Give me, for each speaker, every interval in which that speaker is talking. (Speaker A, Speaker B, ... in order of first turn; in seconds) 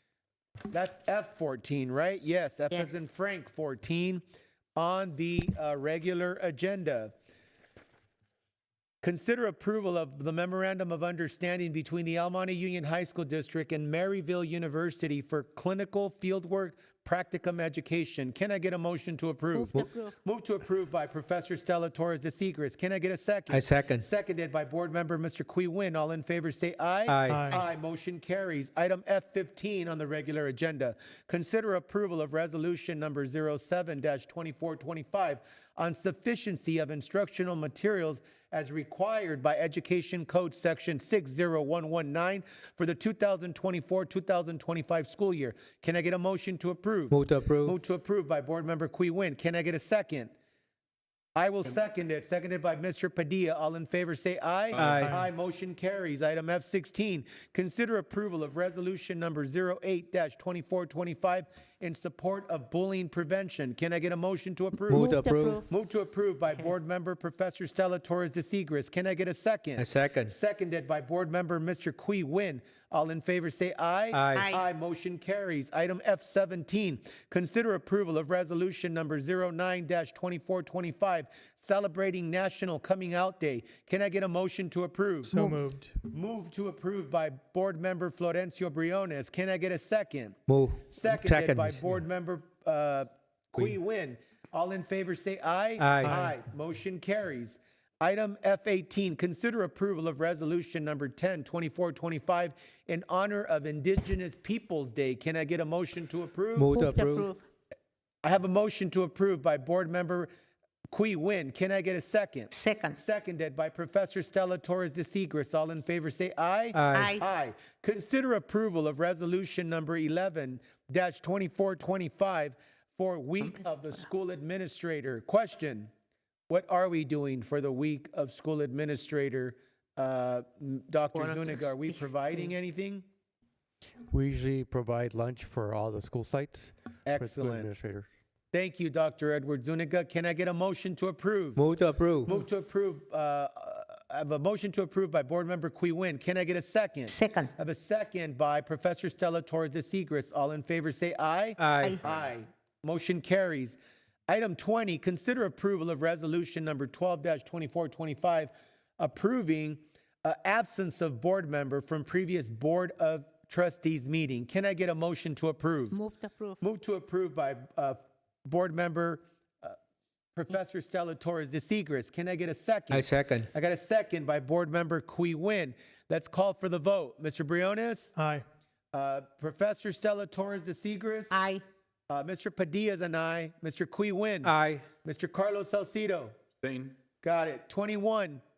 Speaker A: 0.7-4.2, 4.8-7.1, 9.0-50.3, 51.4-65.1, 65.7-85.6, 86.1-106.9, 108.2-110.3, 110.9-125.9, 126.5-133.0, 137.1-137.7, 138.5-141.6, 142.2-153.8, 154.3-166.0, 166.6-169.8, 170.3-178.1, 178.9-181.4, 182.1-186.4, 187.2-188.4
Speaker B: 19.5-20.1, 64.9-65.7, 74.3-74.6, 106.7-107.4, 112.5-113.0, 116.9-117.2, 131.1-132.5, 147.1-147.5, 165.9-166.6, 181.3-181.6
Speaker C: 23.5-24.1, 27.1-27.5, 47.1-47.8, 54.7-55.1, 64.9-65.6, 69.8-70.3, 74.1-74.5, 90.5-92.0, 95.8-96.1, 106.5-107.3, 116.7-117.1, 141.6-142.3, 151.6-152.0, 172.9-173.5, 184.4-184.8
Speaker D: 27.3-27.6, 54.8-55.2, 85.2-86.0, 96.0-96.3, 178.2-178.4
Speaker E: 134.1-138.1